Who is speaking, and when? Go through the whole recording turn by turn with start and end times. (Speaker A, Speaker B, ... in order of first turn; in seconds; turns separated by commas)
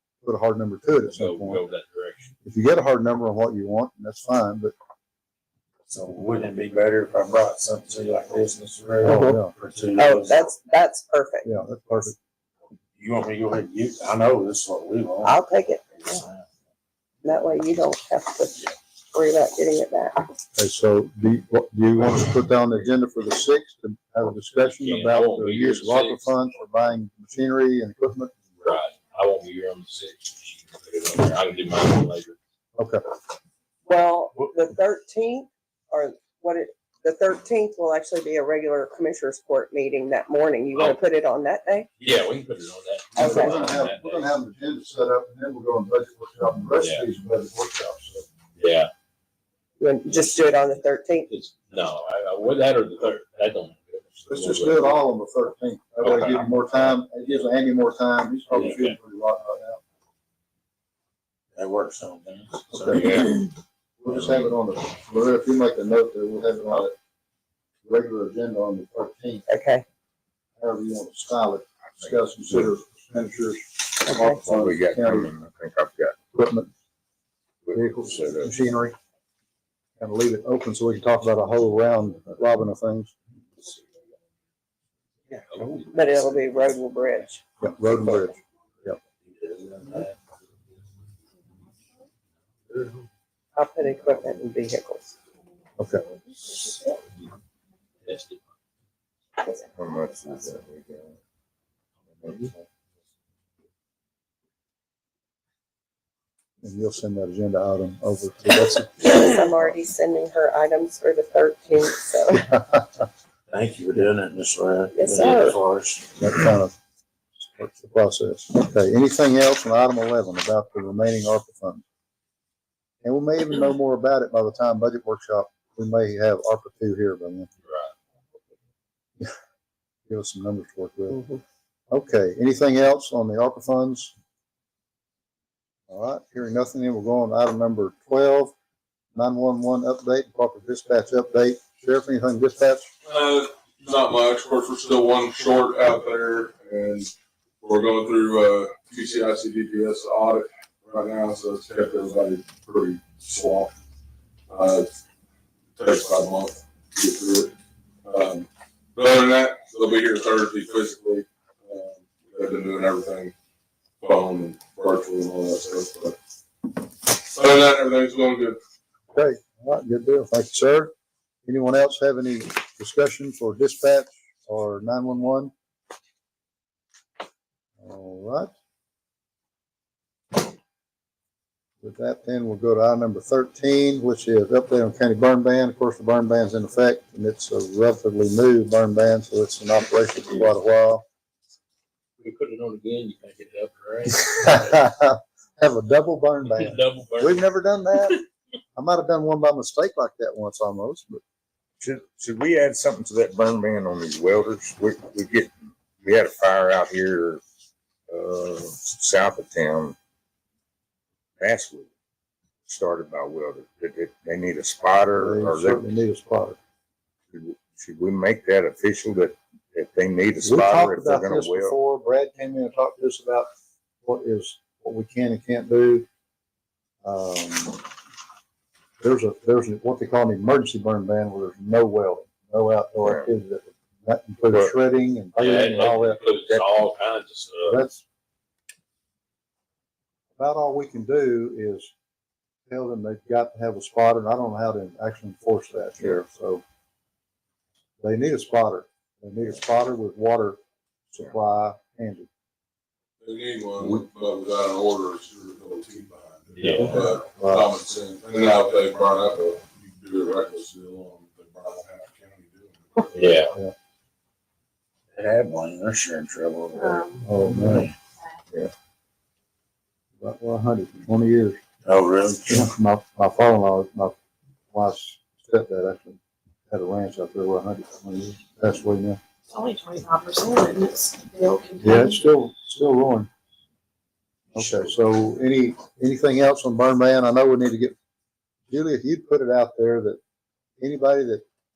Speaker A: 0.2-1.6, Speaker B: 1.1-2.4, Speaker A: 2.5-4.7, Speaker C: 5.9-10.5, Speaker A: 9.0-9.5, Speaker D: 9.0-9.4, Speaker D: 9.9-11.5, Speaker A: 11.4-12.2, Speaker C: 13.0-15.4, Speaker D: 15.2-16.3, Speaker C: 16.1-16.4, Speaker D: 17.2-20.2, Speaker A: 20.6-28.3, Speaker B: 24.6-26.4, Speaker B: 28.6-32.4, Speaker A: 32.8-33.0, Speaker D: 33.9-41.9, Speaker B: 42.0-44.3, Speaker D: 43.2-43.7, Speaker A: 43.2-48.3, Speaker B: 46.8-47.1, Speaker B: 48.6-48.9, Speaker D: 49.8-51.3, Speaker B: 50.2-50.6, Speaker B: 51.3-55.0, Speaker A: 54.3-59.8, Speaker B: 56.0-56.6, Speaker B: 58.5-59.0, Speaker C: 61.5-63.4, Speaker A: 62.7-63.5, Speaker A: 64.0-66.9, Speaker A: 67.9-69.5, Speaker D: 69.5-69.8, Speaker A: 70.6-75.3, Speaker E: 72.0-72.7, Speaker D: 74.1-74.4, Speaker E: 74.4-76.2, Speaker A: 76.3-76.7, Speaker E: 77.7-78.5, Speaker A: 77.7-79.0, Speaker A: 80.0-83.1, Speaker B: 85.3-86.5, Speaker D: 85.9-87.4, Speaker A: 87.6-89.0, Speaker B: 89.4-90.1, Speaker C: 89.5-90.1, Speaker D: 93.5-95.1, Speaker A: 95.8-96.1, Speaker B: 98.0-98.4, Speaker E: 99.7-101.2, Speaker E: 102.2-102.6, Speaker A: 106.6-109.3, Speaker D: 109.0-112.6, Speaker C: 113.5-116.1, Speaker D: 114.9-115.6, Speaker A: 116.2-116.7, Speaker A: 117.5-121.8, Speaker A: 123.0-127.5, Speaker B: 127.7-127.9, Speaker A: 130.1-131.2, Speaker D: 131.1-131.4, Speaker A: 131.9-134.1, Speaker A: 135.9-138.5, Speaker A: 139.2-142.9, Speaker F: 143.1-147.1, Speaker F: 147.6-153.7, Speaker F: 154.5-154.9, Speaker F: 155.8-157.5, Speaker F: 158.1-163.3, Speaker F: 164.0-166.2, Speaker F: 167.0-168.6, Speaker A: 169.1-170.9, Speaker A: 171.5-175.5, Speaker A: 177.8-178.5, Speaker A: 181.8-191.1, Speaker B: 192.2-194.7, Speaker A: 194.3-198.2, Speaker B: 196.4-197.4, Speaker A: 198.8-201.2, Speaker E: 201.8-207.4, Speaker E: 208.1-210.0, Speaker E: 211.4-211.9, Speaker E: 212.7-215.8, Speaker A: 215.1-216.6, Speaker E: 217.3-221.8, Speaker A: 220.4-223.5, Speaker A: 224.0-226.1, Speaker A: 227.0-227.8, Speaker A: 229.0-236.2, Speaker E: 233.0-233.3, Speaker B: 235.3-237.8, Speaker E: 236.3-236.7, Speaker A: 237.7-238.0, Speaker A: 240.4-241.9, Speaker A: 242.7-246.6, Speaker A: 248.0-250.6, Speaker A: 251.1-252.3, Speaker F: 253.2-263.5, Speaker B: 256.6-257.0, Speaker A: 256.8-257.7, Speaker B: 263.1-263.5, Speaker C: 265.1-267.9, Speaker G: 266.9-267.3, Speaker A: 267.2-267.9, Speaker A: 270.2-271.6, Speaker C: 271.9-272.7, Speaker A: 272.5-274.2, Speaker A: 274.7-276.2, Speaker A: 276.7-279.2, Speaker G: 279.5-282.2, Speaker A: 281.8-283.3, Speaker A: 284.5-287.9, Speaker A: 288.7-290.2, Speaker A: 290.8-291.4